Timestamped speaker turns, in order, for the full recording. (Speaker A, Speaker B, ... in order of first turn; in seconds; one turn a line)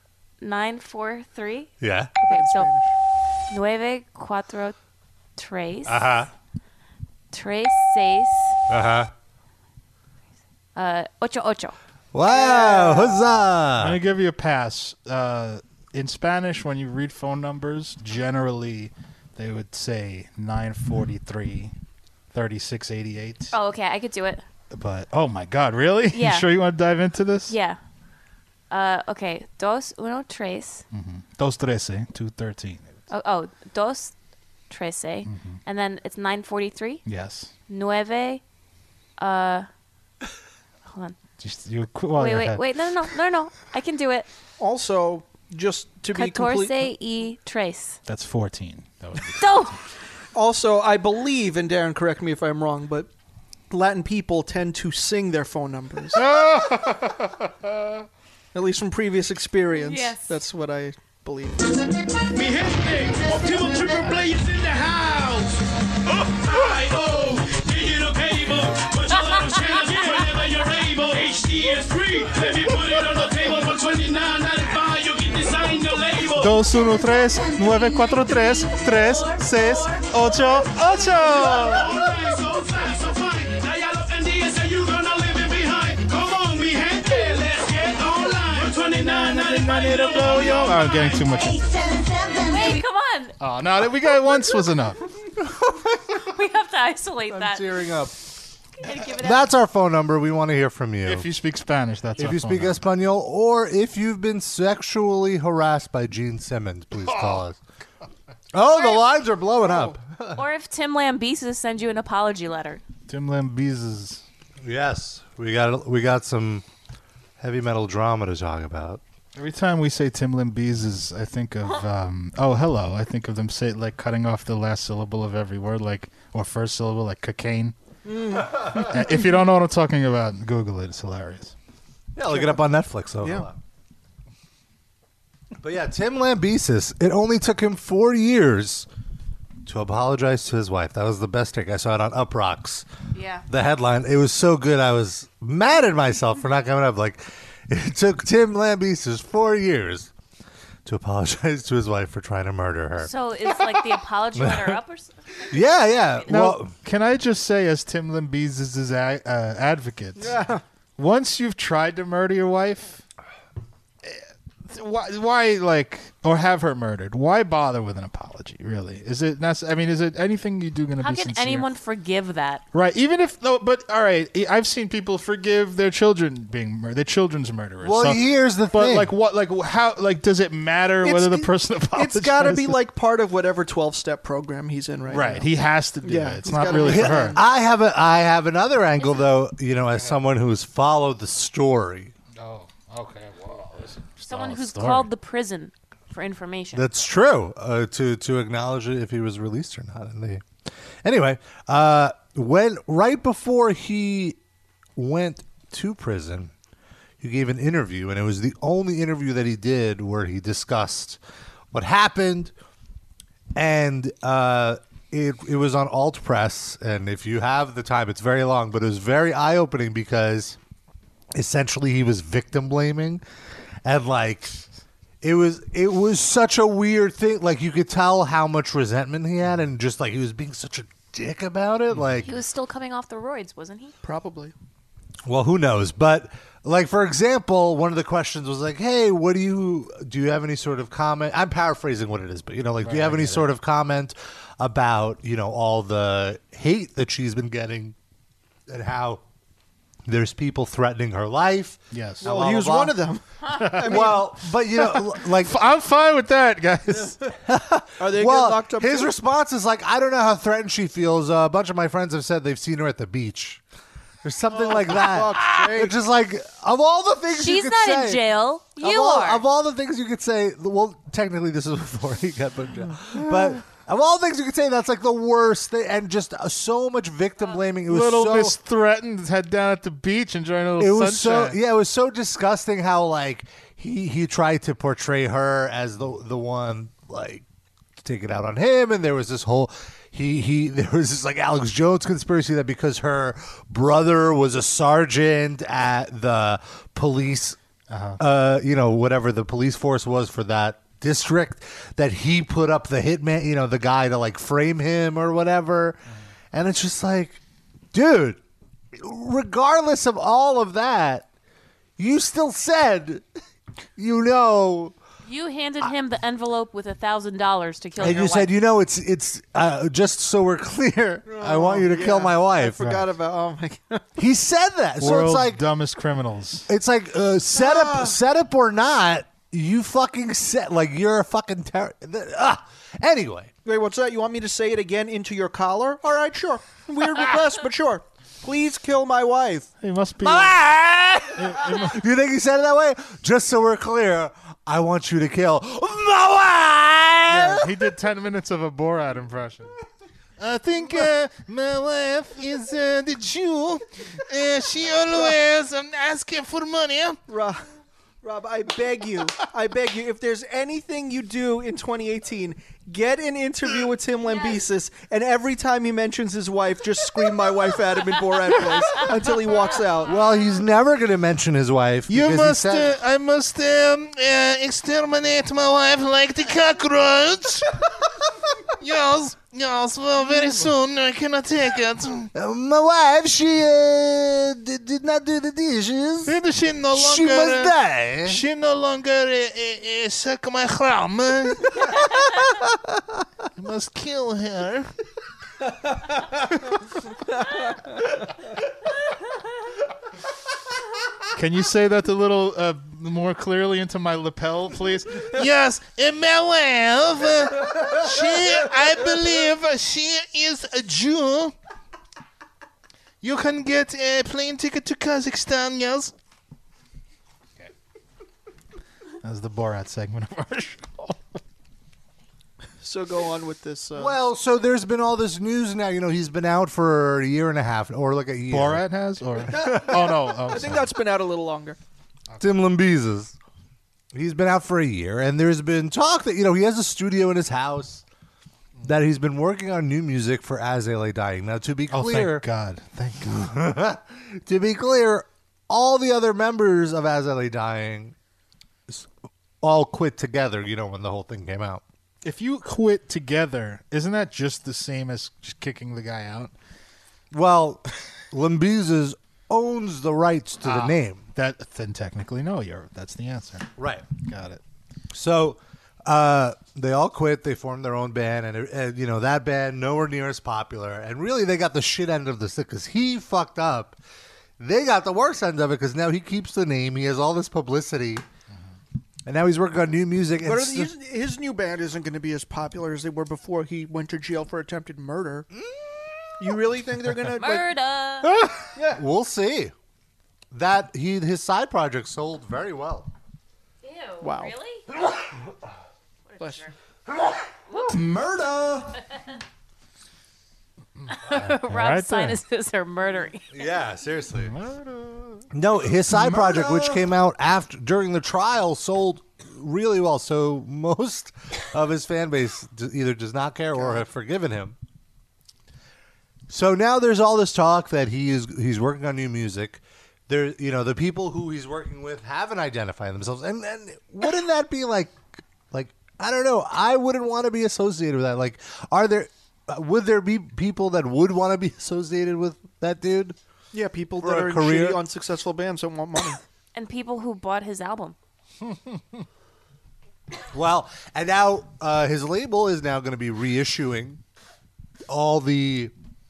Speaker A: 0.4-2.7
Speaker B: 1.8-2.1
Speaker C: 2.3-2.9
Speaker A: 3.5-4.8
Speaker A: 5.4-6.1
Speaker B: 5.8-6.3
Speaker A: 7.3-8.6
Speaker B: 8.7-9.1
Speaker A: 10.7-11.8
Speaker B: 12.1-14.0
Speaker A: 12.5-12.9
Speaker D: 13.8-21.7
Speaker D: 22.3-23.5
Speaker A: 23.5-24.4
Speaker D: 24.7-27.5
Speaker A: 26.1-26.5
Speaker A: 27.5-27.8
Speaker A: 28.7-30.8
Speaker D: 30.9-33.0
Speaker A: 33.1-34.1
Speaker A: 34.7-37.0
Speaker D: 35.2-35.6
Speaker D: 37.0-37.5
Speaker A: 37.7-38.4
Speaker A: 39.2-39.7
Speaker A: 40.9-41.2
Speaker D: 41.4-42.6
Speaker A: 42.1-44.3
Speaker C: 44.6-46.8
Speaker A: 46.1-48.0
Speaker D: 48.0-49.7
Speaker A: 49.3-49.8
Speaker C: 50.3-53.1
Speaker C: 53.7-56.2
Speaker D: 56.1-57.3
Speaker C: 58.5-61.6
Speaker A: 59.8-60.3
Speaker E: 62.3-65.5
Speaker E: 66.1-76.7
Speaker D: 76.3-81.9
Speaker A: 79.0-80.1
Speaker E: 81.2-91.3
Speaker D: 89.1-91.6
Speaker A: 92.5-93.3
Speaker D: 93.4-95.0
Speaker B: 95.4-96.1
Speaker A: 96.2-97.7
Speaker B: 97.3-98.2
Speaker A: 98.8-99.5
Speaker B: 99.0-101.3
Speaker D: 101.0-102.8
Speaker B: 102.2-107.6
Speaker B: 108.5-110.4
Speaker A: 110.3-112.8
Speaker D: 113.1-114.2
Speaker B: 114.6-116.7
Speaker B: 117.4-119.0
Speaker D: 119.3-127.8
Speaker C: 128.0-129.3
Speaker D: 128.4-131.5
Speaker B: 132.2-133.6
Speaker C: 132.3-132.6
Speaker B: 135.6-138.9
Speaker B: 139.6-142.8
Speaker A: 143.1-143.4
Speaker B: 143.5-150.1
Speaker B: 150.8-154.8
Speaker A: 153.0-156.3
Speaker B: 155.5-156.7
Speaker D: 156.3-160.4
Speaker C: 160.2-160.6
Speaker D: 161.0-163.0
Speaker D: 164.0-171.7
Speaker A: 171.0-172.6
Speaker D: 172.7-182.8
Speaker B: 177.8-179.1
Speaker C: 181.0-185.4
Speaker D: 185.1-187.4
Speaker C: 186.0-187.4
Speaker B: 186.8-192.1
Speaker D: 192.4-195.1
Speaker A: 194.3-196.9
Speaker B: 196.7-200.5
Speaker B: 201.0-204.4
Speaker B: 204.9-206.5
Speaker B: 207.2-211.2
Speaker B: 211.7-212.5
Speaker B: 213.5-220.6
Speaker B: 221.3-223.2
Speaker B: 223.8-224.6
Speaker B: 225.2-232.3
Speaker D: 231.9-232.2
Speaker A: 232.2-233.9
Speaker C: 234.0-234.5
Speaker B: 235.2-247.9
Speaker D: 242.8-243.5
Speaker B: 248.7-249.2
Speaker B: 250.1-252.9
Speaker D: 251.9-252.3
Speaker C: 252.2-254.3
Speaker D: 253.6-254.1
Speaker B: 253.8-255.6
Speaker D: 254.9-257.2
Speaker B: 257.4-263.6
Speaker C: 258.0-259.1
Speaker B: 264.2-268.2
Speaker C: 264.5-265.9
Speaker A: 267.3-269.4
Speaker B: 268.8-278.6
Speaker D: 277.8-281.6
Speaker B: 280.8-287.4
Speaker B: 288.0-297.6
Speaker D: 297.9-298.2
Speaker B: 298.2-306.0
Speaker B: 306.5-307.4
Speaker B: 307.9-308.4
Speaker B: 308.9-311.3
Speaker B: 312.0-313.2
Speaker B: 314.0-314.9
Speaker A: 315.2-318.5
Speaker B: 318.0-322.9
Speaker C: 321.3-324.1
Speaker B: 324.2-325.6
Speaker D: 325.0-326.7
Speaker B: 326.7-333.5
Speaker C: 327.6-328.1
Speaker C: 333.6-339.7
Speaker D: 339.8-340.6
Speaker B: 340.2-347.7
Speaker D: 341.4-342.0
Speaker D: 347.3-349.7
Speaker D: 350.4-357.2
Speaker C: 357.3-357.6
Speaker C: 358.2-370.1
Speaker A: 364.3-364.6
Speaker B: 370.0-372.9
Speaker D: 372.1-377.7
Speaker D: 378.8-382.3
Speaker B: 382.3-386.4
Speaker D: 386.2-392.0
Speaker B: 386.9-388.4
Speaker B: 392.6-393.0
Speaker D: 393.6-394.9
Speaker D: 401.4-411.5
Speaker D: 413.2-416.1
Speaker D: 419.2-421.2
Speaker C: 422.8-424.1
Speaker B: 423.9-428.8
Speaker D: 428.5-430.9
Speaker C: 429.5-431.8
Speaker B: 429.6-430.0
Speaker B: 432.4-433.4
Speaker B: 434.1-438.0
Speaker B: 438.8-442.4
Speaker D: 441.9-443.5
Speaker B: 443.2-448.1
Speaker B: 449.6-451.8
Speaker D: 452.2-456.5
Speaker B: 457.3-461.2
Speaker D: 460.6-464.6
Speaker B: 463.8-464.1
Speaker B: 465.1-474.0
Speaker B: 474.6-478.2
Speaker B: 479.2-480.9
Speaker C: 480.4-485.5
Speaker B: 485.5-486.3
Speaker C: 486.4-487.7
Speaker A: 487.3-488.4
Speaker C: 488.7-489.0
Speaker B: 488.9-489.7
Speaker B: 490.5-493.1
Speaker A: 493.8-494.8
Speaker C: 494.2-494.5
Speaker A: 496.3-496.7
Speaker A: 497.7-498.0
Speaker D: 501.1-502.4
Speaker A: 501.1-503.5
Speaker B: 503.5-504.5
Speaker D: 504.4-505.5
Speaker B: 505.5-514.8
Speaker B: 516.5-533.4
Speaker C: 533.7-536.4
Speaker B: 534.2-535.0
Speaker A: 536.7-538.1
Speaker B: 540.5-544.2
Speaker B: 545.1-545.9